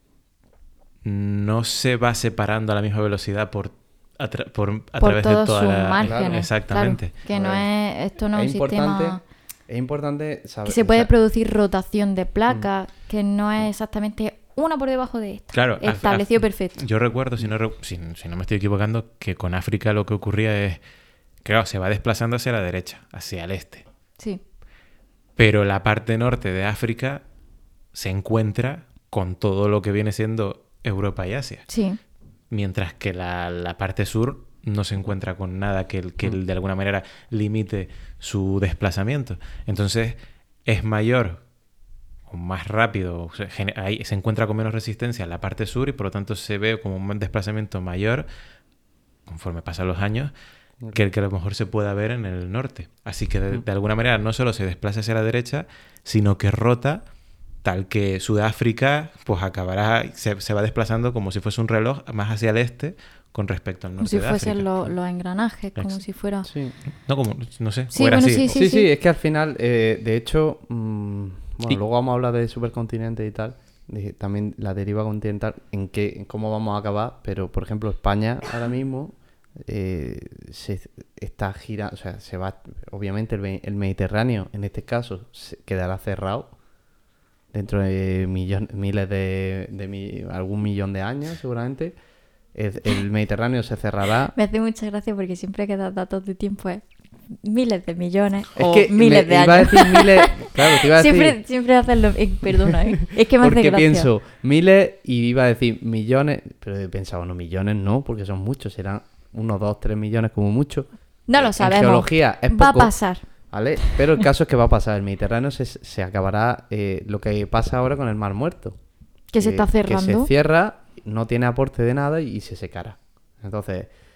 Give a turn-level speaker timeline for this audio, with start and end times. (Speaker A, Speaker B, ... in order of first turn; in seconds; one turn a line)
Speaker A: 1.0-7.1
Speaker B: 5.0-9.2
Speaker C: 6.0-6.4
Speaker C: 7.3-7.7
Speaker C: 8.3-11.1
Speaker B: 10.7-16.8
Speaker A: 15.5-20.8
Speaker A: 21.4-23.8
Speaker A: 25.4-27.2
Speaker A: 27.9-31.7
Speaker B: 31.7-32.0
Speaker A: 32.5-41.4
Speaker A: 42.3-48.3
Speaker A: 49.3-50.3
Speaker A: 50.9-57.0
Speaker A: 57.6-64.8
Speaker B: 64.0-66.5
Speaker A: 65.8-66.0
Speaker C: 66.5-66.7
Speaker A: 67.0-68.6
Speaker B: 67.9-68.9
Speaker C: 68.5-86.5
Speaker C: 87.5-92.0
Speaker C: 92.5-94.3
Speaker B: 94.3-104.1
Speaker C: 98.5-101.4
Speaker C: 102.6-112.9
Speaker B: 111.3-113.2
Speaker C: 113.5-118.8
Speaker B: 119.3-120.3
Speaker C: 119.4-123.9